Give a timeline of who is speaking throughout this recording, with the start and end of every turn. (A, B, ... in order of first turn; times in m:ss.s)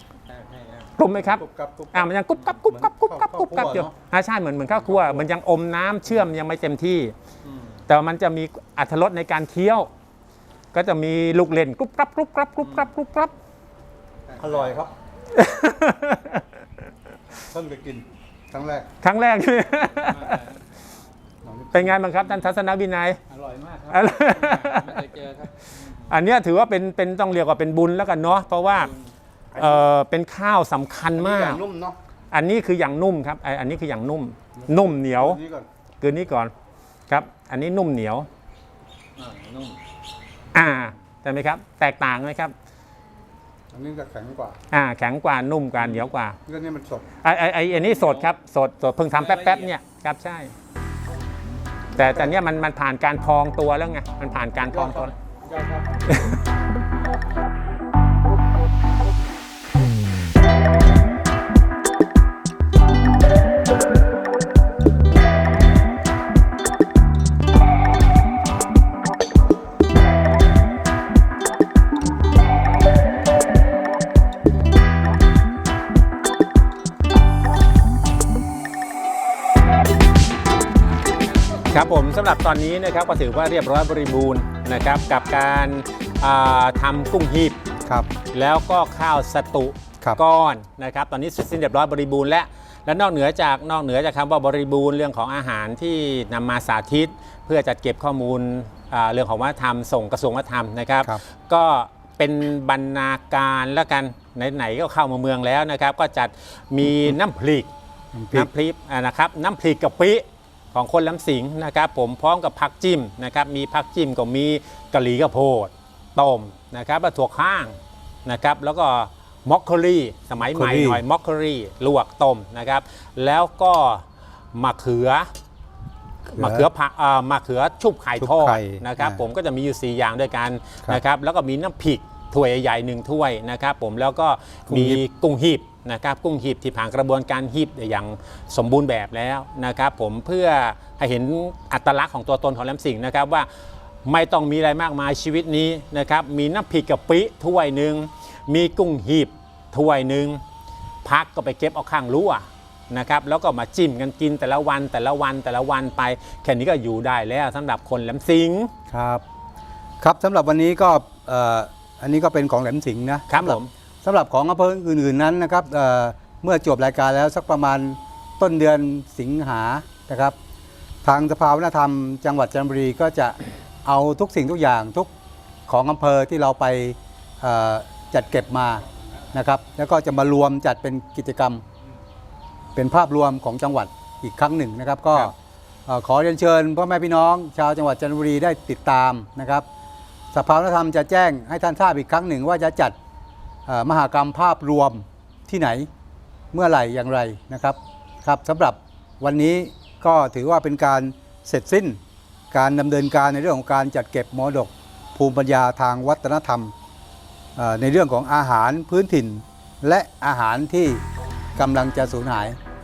0:00.3-0:00.8 A
0:01.0-0:07.1 B
0:01.2-0:03.9 C
0:07.9-0:09.9 B
0:10.7-0:13.3 B
0:14.4-0:14.9 C
0:15.3-0:16.4 B
0:17.5-0:18.9 C
0:19.0-0:20.5 B
0:21.4-0:22.0 C
0:21.7-0:23.2 B
0:23.3-0:23.9 C
0:23.9-0:25.2 B
0:24.4-0:25.5 A
0:25.9-0:28.9 B
0:29.5-0:29.9 C
0:29.6-0:31.6 B
0:31.2-0:32.0 C
0:32.3-0:35.4 B
0:34.6-0:35.6 C
0:36.0-0:36.5 B
0:37.1-0:38.3 B
0:39.2-0:39.7 A
0:40.5-0:42.5 B
0:43.7-0:44.6 C
0:44.7-0:46.4 B
0:45.8-0:47.0 C
0:47.2-0:50.5 B
0:51.9-0:55.1 B
0:52.0-0:52.3 C
0:54.7-0:56.2 C
0:56.1-0:56.4 B
1:21.6-1:27.6 B
1:28.3-1:47.7 B
1:48.1-1:48.5 C
1:48.3-2:05.3 B
2:00.5-2:01.0 C
2:06.3-2:23.5 B
2:06.4-2:06.7 C
2:08.2-2:09.2 C
2:14.7-2:15.0 C
2:24.0-2:30.4 B
2:31.0-2:38.7 B
2:38.9-2:39.2 C
2:40.0-2:50.3 C
2:43.3-2:43.7 B
2:51.0-2:55.1 C
2:55.7-3:01.6 C
3:02.8-3:05.3 C
3:05.8-3:09.6 C
3:10.3-3:13.0 C
3:13.7-3:15.9 C
3:16.5-3:22.0 C
3:22.5-3:26.7 C
3:27.6-3:31.0 C
3:31.6-3:32.6 C